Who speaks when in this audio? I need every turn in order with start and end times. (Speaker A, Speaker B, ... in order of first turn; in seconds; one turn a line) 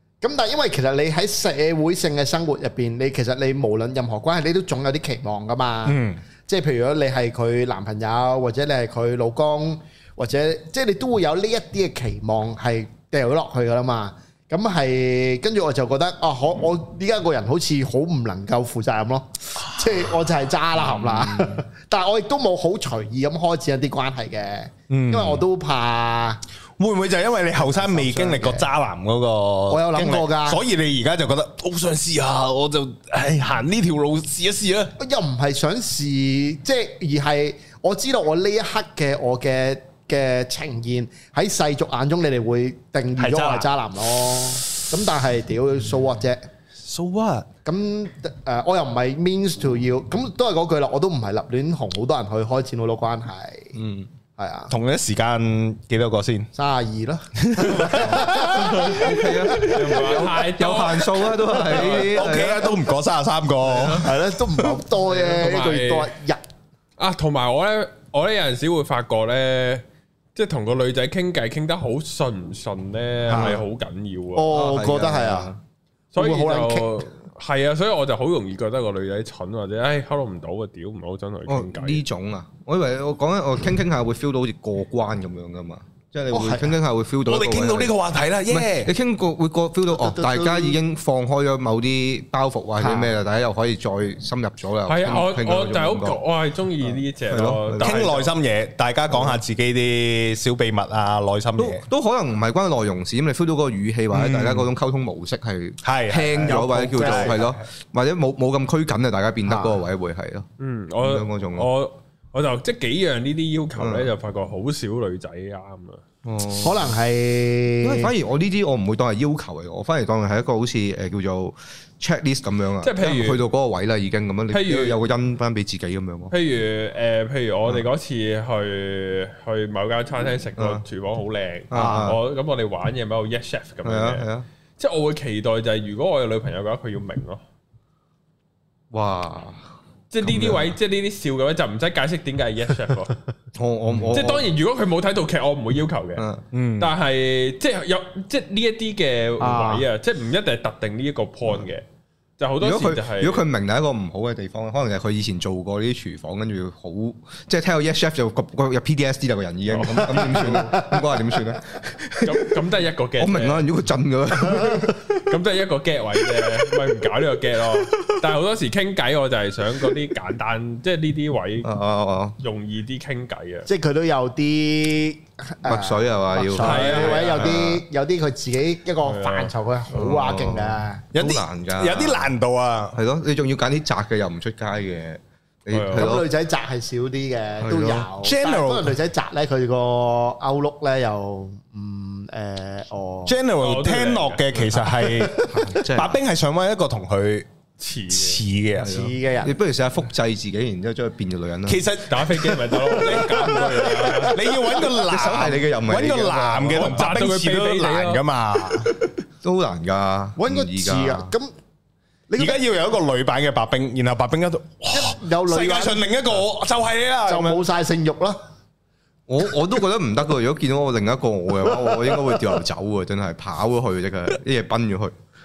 Speaker A: 0.2-26.4
Speaker B: 5.8-6.2
Speaker C: 20.8-21.6
Speaker B: 24.9-25.4
Speaker B: 26.8-34.9
Speaker A: 27.6-28.7
Speaker A: 29.7-30.6
Speaker A: 35.0-46.4
Speaker B: 43.2-43.7
Speaker B: 46.8-47.5
Speaker A: 47.6-53.7
Speaker C: 53.7-54.1
Speaker A: 54.4-54.7
Speaker B: 54.7-56.5
Speaker A: 56.5-59.8
Speaker B: 57.4-58.5
Speaker C: 57.9-62.8
Speaker D: 58.6-61.8
Speaker A: 61.7-62.0
Speaker B: 61.8-64.2
Speaker C: 63.6-64.1
Speaker A: 63.9-66.4
Speaker D: 65.0-66.1
Speaker D: 67.0-69.8
Speaker D: 70.3-74.5
Speaker A: 73.3-73.6
Speaker A: 74.3-75.5
Speaker C: 74.5-75.6
Speaker D: 76.1-82.0
Speaker A: 76.2-77.0
Speaker C: 81.5-87.9
Speaker A: 86.3-86.8
Speaker B: 87.2-88.9
Speaker C: 88.5-96.2
Speaker A: 89.9-90.8
Speaker A: 92.8-93.1
Speaker D: 94.9-98.3
Speaker C: 96.9-98.0
Speaker B: 97.8-101.8
Speaker C: 101.6-110.5
Speaker B: 104.1-104.7
Speaker B: 105.8-107.6
Speaker A: 107.0-107.3
Speaker A: 109.5-109.8
Speaker D: 110.6-116.0
Speaker C: 111.0-111.7
Speaker C: 113.8-114.1
Speaker C: 116.2-116.9
Speaker A: 116.6-118.1
Speaker C: 117.8-126.3
Speaker D: 122.8-123.4
Speaker D: 124.5-125.0
Speaker D: 126.3-134.2
Speaker C: 130.6-130.8
Speaker C: 131.7-132.2
Speaker A: 131.7-132.0
Speaker C: 133.8-134.4
Speaker D: 134.8-137.4
Speaker C: 138.9-139.6
Speaker D: 140.1-143.1
Speaker C: 140.2-140.7
Speaker C: 143.6-144.5
Speaker D: 144.1-146.2
Speaker C: 146.2-146.4
Speaker B: 146.5-146.9
Speaker D: 146.8-151.8
Speaker A: 149.4-149.8
Speaker D: 152.4-153.4
Speaker C: 152.6-162.5
Speaker D: 159.7-160.8
Speaker A: 160.3-160.9
Speaker D: 162.2-163.7
Speaker C: 163.2-165.2
Speaker D: 165.2-171.7
Speaker C: 171.6-172.3
Speaker D: 172.4-173.7
Speaker A: 173.7-181.0
Speaker C: 175.6-177.8
Speaker D: 176.6-177.7
Speaker D: 179.0-179.5
Speaker C: 179.9-182.3
Speaker B: 181.1-183.0
Speaker C: 182.9-186.3
Speaker D: 185.7-186.1
Speaker A: 185.9-193.4
Speaker C: 187.6-188.1
Speaker B: 188.2-188.9
Speaker B: 193.2-197.5
Speaker D: 193.6-194.6
Speaker A: 195.2-195.5
Speaker C: 195.3-196.2
Speaker D: 197.8-198.4
Speaker B: 198.1-199.0
Speaker C: 198.8-201.8
Speaker A: 198.8-199.5
Speaker B: 201.7-208.9
Speaker D: 202.1-204.4
Speaker A: 202.8-204.4
Speaker C: 204.9-207.2
Speaker D: 206.7-208.2
Speaker C: 209.4-211.3
Speaker A: 210.4-211.5
Speaker A: 212.3-212.6
Speaker B: 212.4-217.6
Speaker A: 214.9-216.1
Speaker A: 217.3-218.4
Speaker C: 219.3-225.1
Speaker A: 221.8-222.2